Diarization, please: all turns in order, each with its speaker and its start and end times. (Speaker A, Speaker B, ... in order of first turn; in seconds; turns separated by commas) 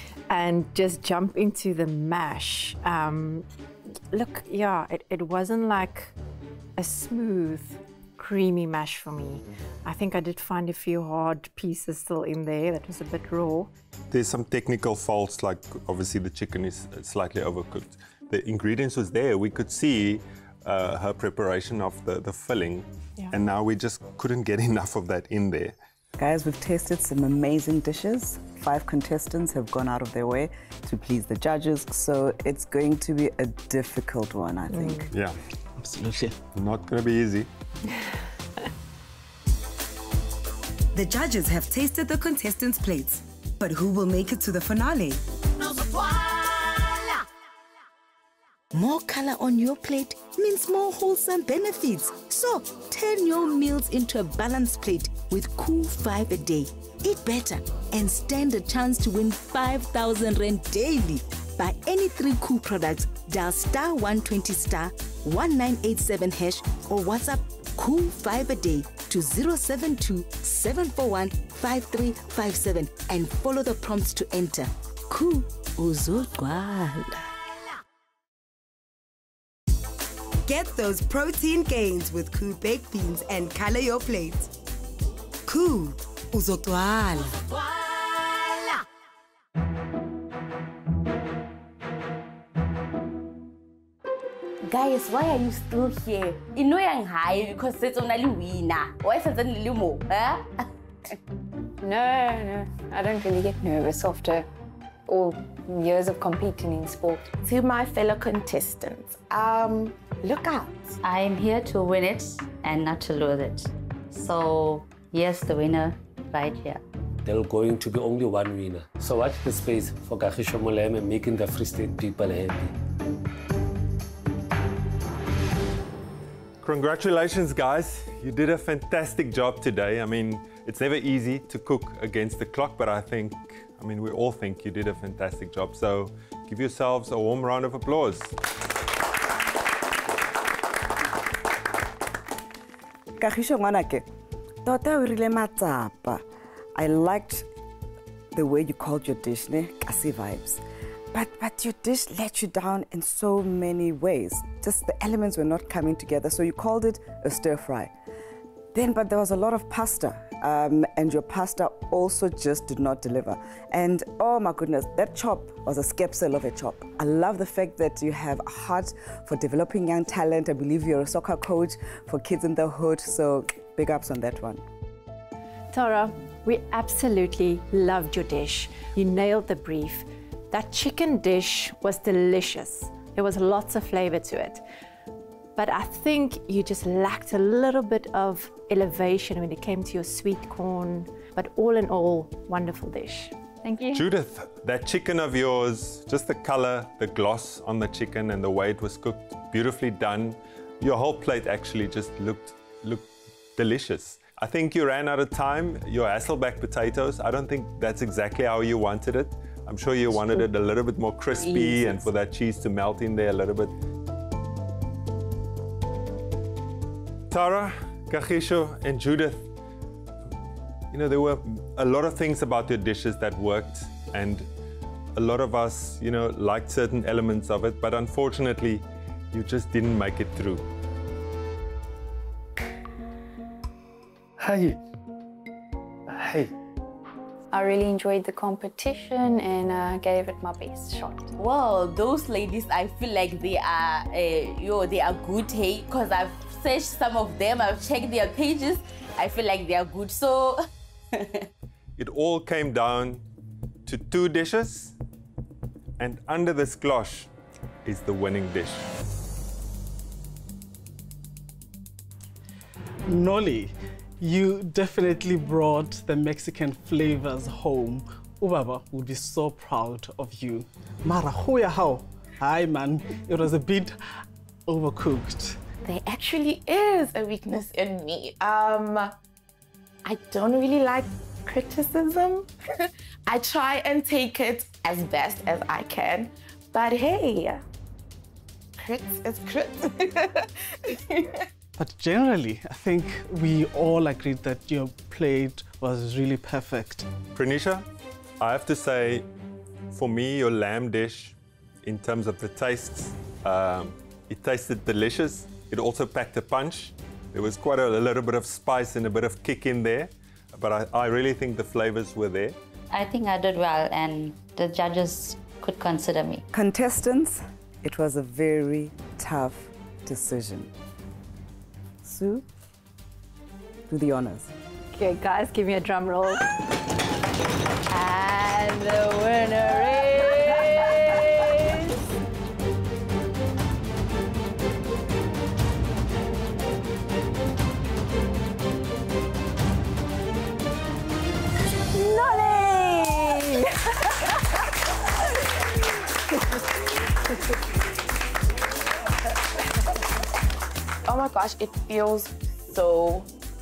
Speaker A: 0.3-3.5, Speaker A: 4.1-6.1, Speaker A: 6.8-13.7, Speaker B: 14.1-25.8, Speaker C: 26.2-35.1, Speaker A: 34.7-35.1, Speaker B: 35.1-35.4, Speaker D: 35.8-36.4, Speaker B: 36.5-37.5, Speaker E: 40.9-45.2, Speaker F: 48.7-77.2, Speaker E: 80.5-84.5, Speaker E: 85.5-87.4, Speaker G: 94.6-100.7, Speaker H: 101.8-104.5, Speaker H: 105.1-107.3, Speaker I: 107.4-110.9, Speaker J: 111.0-116.8, Speaker K: 117.3-122.7, Speaker B: 126.6-138.3, Speaker C: 143.2-144.1, Speaker C: 144.7-146.2, Speaker C: 146.8-147.5, Speaker C: 148.3-150.6, Speaker C: 151.1-157.9, Speaker C: 158.7-174.6, Speaker A: 175.7-184.6, Speaker A: 185.6-193.3, Speaker H: 193.6-194.1, Speaker B: 193.9-213.7, Speaker G: 210.1-210.5, Speaker G: 211.4-212.1, Speaker B: 217.3-219.5, Speaker B: 220.9-224.5, Speaker B: 225.2-230.7, Speaker K: 234.4-234.8, Speaker K: 236.1-236.5, Speaker H: 237.5-241.3, Speaker G: 241.4-251.5, Speaker B: 252.0-253.2, Speaker B: 253.9-254.9, Speaker B: 256.0-257.3, Speaker B: 257.9-258.9, Speaker D: 263.1-273.9, Speaker D: 274.7-275.6, Speaker I: 275.9-279.1, Speaker I: 280.1-287.6, Speaker I: 288.8-291.5, Speaker D: 291.8-297.1, Speaker B: 297.3-297.9, Speaker B: 298.4-299.3, Speaker B: 299.9-312.6, Speaker J: 312.9-316.4, Speaker C: 316.5-320.7, Speaker C: 322.0-322.4, Speaker C: 323.9-324.5, Speaker A: 324.9-326.4, Speaker G: 327.9-332.0, Speaker H: 342.0-343.1, Speaker I: 351.1-353.3